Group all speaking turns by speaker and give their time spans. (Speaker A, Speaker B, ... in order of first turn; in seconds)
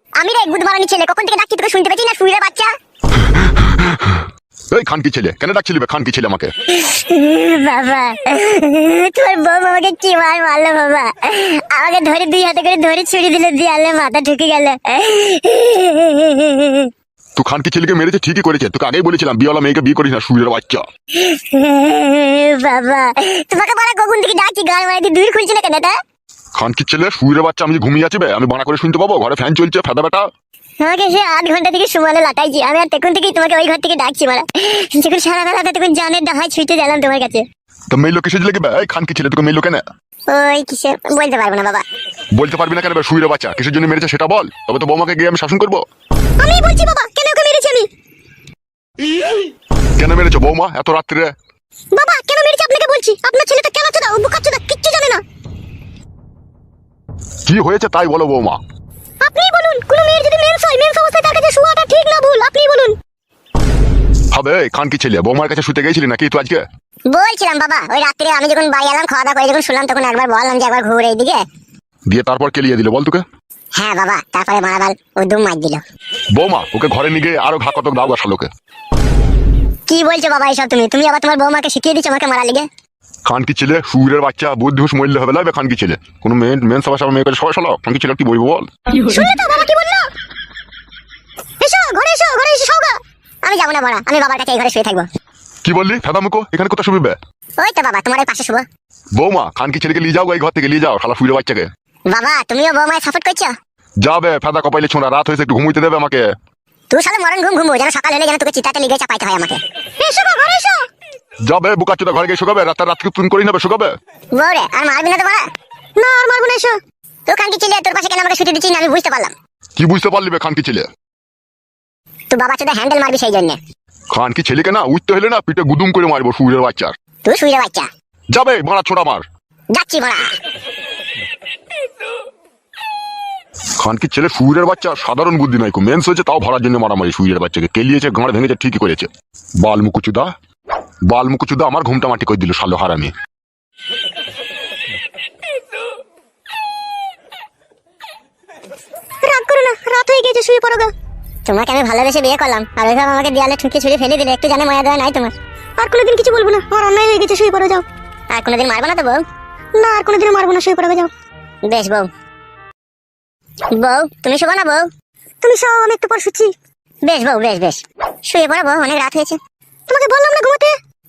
Speaker A: 0.2-2.7, 6.7-16.9, 21.2-26.0, 30.8-37.4, 40.3-41.8, 67.1-71.4, 73.8-75.8, 79.9-82.7, 93.4-95.1, 97.6-98.7, 102.1-103.5, 106.9-109.6, 114.3-115.5, 117.3-119.3, 122.3-123.6, 127.2-127.9, 129.7-130.3, 151.5-155.3, 158.3-159.2, 161.7-162.1, 163.7-164.9, 167.0-169.4
Speaker B: 4.7-6.5, 17.4-20.8, 26.6-30.3, 37.9-39.8, 42.4-45.8, 50.0-51.3, 57.5-58.6, 64.3-66.7, 72.1-73.2, 76.4-78.5, 83.2-88.7, 95.6-97.2, 99.2-101.7, 104.0-106.2, 111.5-113.9, 119.8-120.9, 124.1-126.9, 128.3-129.2, 133.8-139.1, 139.6-140.3, 141.1-143.1
Speaker C: 46.4-47.9, 51.9-55.2, 59.2-63.0, 88.9-90.1, 91.6-93.0, 110.0-110.9, 116.0-116.8, 149.2-150.9, 155.8-157.8, 159.8-161.1, 165.4-166.5, 169.9-170.7